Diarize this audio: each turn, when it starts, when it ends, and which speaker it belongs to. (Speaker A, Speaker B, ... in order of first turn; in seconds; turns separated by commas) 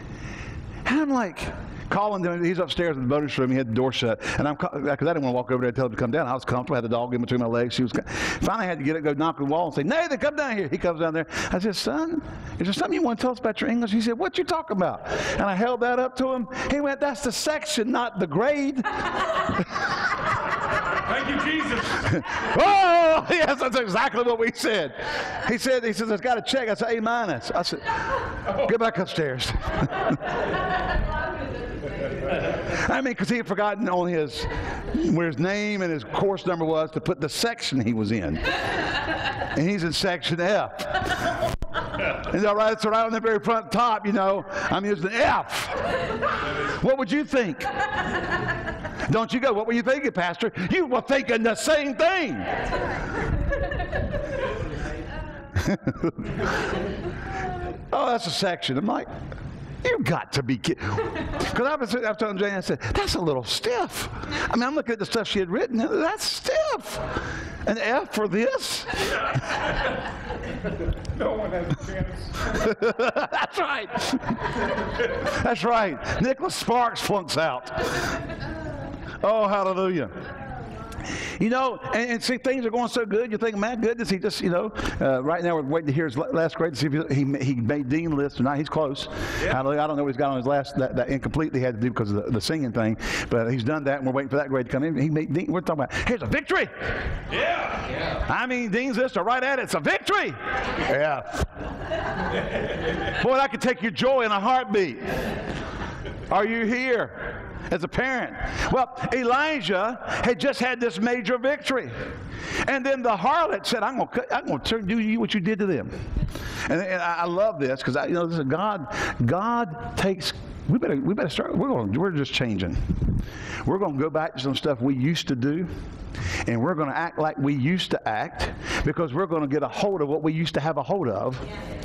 Speaker A: 0.8-19.9, Speaker B: 20.9-22.2, Speaker A: 22.0-30.2, Speaker A: 32.5-38.6, Speaker A: 39.5-41.2, Speaker A: 42.0-47.7, Speaker A: 49.0-52.6, Speaker A: 55.5-56.6, Speaker A: 57.7-59.1, Speaker A: 59.8-69.6, Speaker B: 71.0-72.7, Speaker A: 72.5-78.2, Speaker A: 79.2-80.2, Speaker A: 81.4-97.0, Speaker B: 97.3-98.2, Speaker A: 98.2-101.5, Speaker A: 103.0-105.2, Speaker A: 106.3-112.0, Speaker A: 112.6-116.0, Speaker A: 116.7-125.7, Speaker A: 126.5-131.5